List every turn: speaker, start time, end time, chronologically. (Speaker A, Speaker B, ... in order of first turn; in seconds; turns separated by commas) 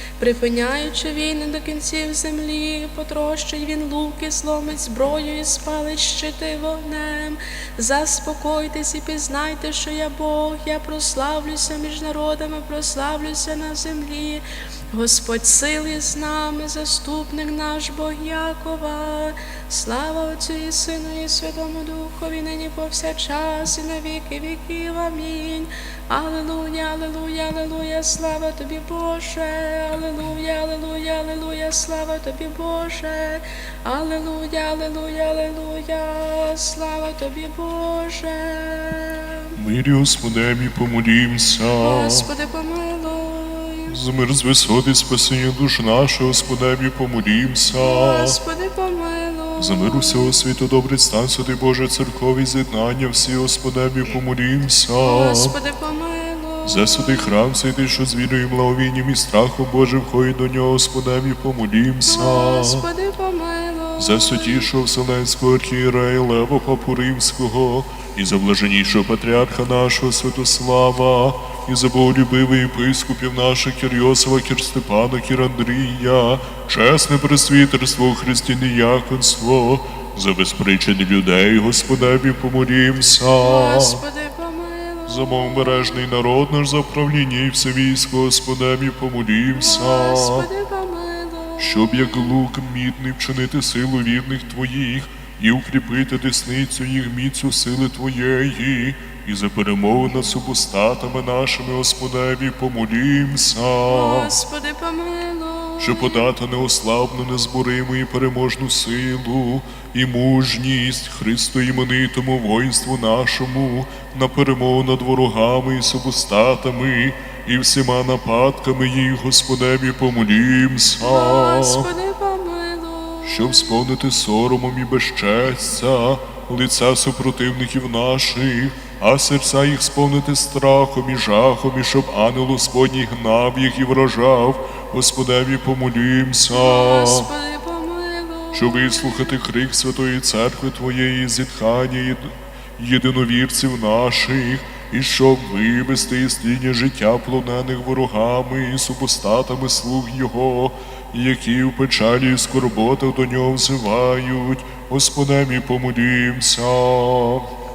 Speaker A: 0.2-39.5, Speaker B: 39.6-42.3, Speaker A: 41.8-44.0, Speaker B: 43.9-48.4, Speaker A: 47.7-50.4, Speaker B: 49.6-55.5, Speaker A: 55.0-57.3, Speaker B: 56.6-62.9, Speaker A: 62.0-64.7, Speaker B: 64.0-84.0, Speaker A: 83.3-86.0, Speaker B: 85.1-90.5, Speaker A: 89.5-92.2, Speaker B: 91.6-104.3, Speaker A: 103.9-106.3, Speaker B: 105.8-121.8, Speaker A: 121.0-123.7, Speaker B: 123.2-137.3, Speaker A: 136.5-139.0, Speaker B: 138.5-157.5